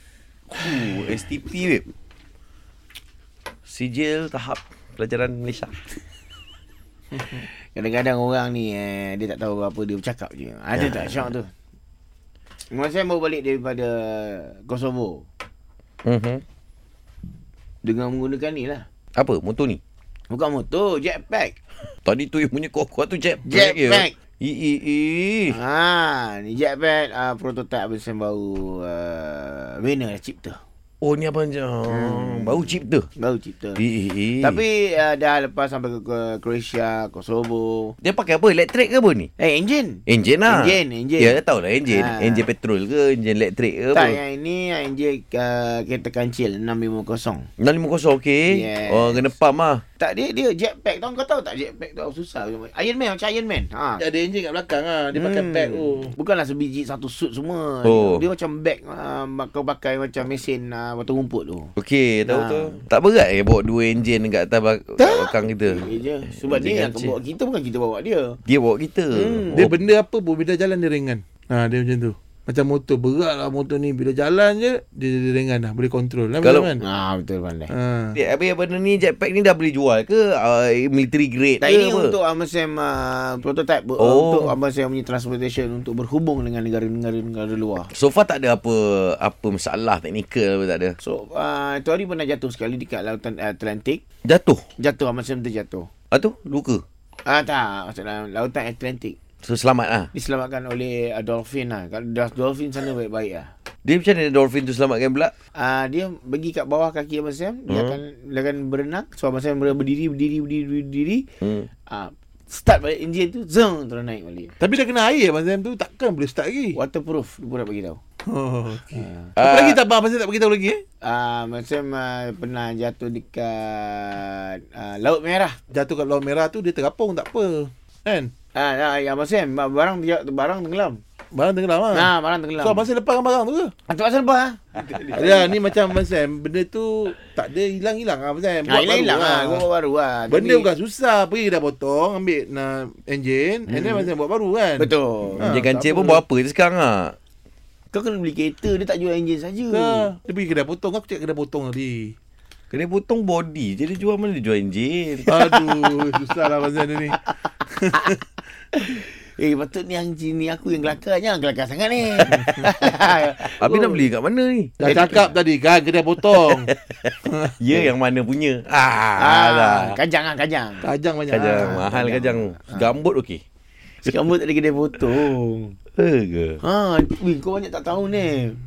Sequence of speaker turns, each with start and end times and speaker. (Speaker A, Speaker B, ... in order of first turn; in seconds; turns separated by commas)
Speaker A: 0.5-1.8, Speaker A: 3.6-5.8, Speaker B: 7.2-7.4, Speaker C: 7.2-11.5, Speaker A: 10.7-11.3, Speaker C: 12.7-15.2, Speaker A: 16.0-16.4, Speaker C: 17.8-18.8, Speaker A: 19.1-19.8, Speaker C: 20.3-21.6, Speaker A: 22.0-25.6, Speaker C: 23.4-24.1, Speaker C: 25.5-30.6, Speaker A: 31.0-33.1, Speaker C: 31.9-33.8, Speaker A: 33.8-34.6, Speaker C: 34.4-37.9, Speaker A: 38.0-39.3, Speaker C: 39.4-42.5, Speaker A: 40.1-44.2, Speaker C: 43.9-47.5, Speaker A: 47.6-49.8, Speaker C: 48.5-49.3, Speaker C: 50.0-54.0, Speaker B: 54.0-56.1, Speaker C: 55.1-61.7, Speaker A: 57.8-58.2, Speaker A: 61.8-67.1, Speaker C: 62.2-62.8, Speaker C: 65.0-68.4, Speaker A: 68.5-69.8, Speaker C: 69.1-69.7, Speaker B: 69.5-76.8, Speaker A: 76.4-76.7, Speaker C: 76.8-77.7, Speaker B: 77.7-78.2, Speaker A: 78.1-82.2, Speaker C: 81.6-87.9, Speaker A: 84.0-84.5, Speaker A: 87.9-91.0, Speaker C: 91.0-94.0, Speaker A: 94.2-94.6, Speaker C: 94.8-95.9, Speaker A: 96.1-96.8, Speaker C: 97.2-99.2, Speaker A: 99.4-100.1, Speaker C: 100.1-103.5, Speaker A: 103.8-105.3, Speaker C: 105.5-111.2, Speaker A: 107.7-108.0, Speaker A: 111.4-111.7, Speaker C: 111.9-114.5, Speaker B: 114.6-116.8, Speaker C: 116.8-118.0, Speaker B: 118.3-120.8, Speaker C: 118.9-119.3, Speaker A: 119.4-119.8, Speaker C: 121.0-125.6, Speaker B: 125.7-128.3, Speaker C: 128.5-131.0, Speaker B: 131.3-133.7, Speaker C: 131.9-132.8, Speaker C: 133.9-135.5, Speaker A: 134.7-135.5, Speaker B: 135.1-139.7, Speaker C: 138.7-140.7, Speaker B: 140.3-146.2, Speaker C: 143.7-144.1, Speaker C: 144.8-145.4, Speaker A: 145.4-147.1, Speaker C: 147.9-150.1, Speaker B: 149.7-152.1, Speaker A: 152.7-155.4, Speaker B: 155.2-158.2, Speaker C: 158.7-163.6, Speaker B: 162.4-162.7, Speaker A: 163.6-164.8, Speaker B: 163.6-164.1, Speaker B: 164.8-166.7, Speaker C: 164.8-165.3, Speaker A: 166.2-169.9, Speaker B: 167.3-167.6, Speaker C: 169.2-170.9, Speaker B: 170.8-171.9, Speaker A: 171.3-173.4, Speaker C: 171.6-172.9, Speaker C: 174.0-175.8, Speaker A: 176.0-176.6, Speaker C: 176.6-178.6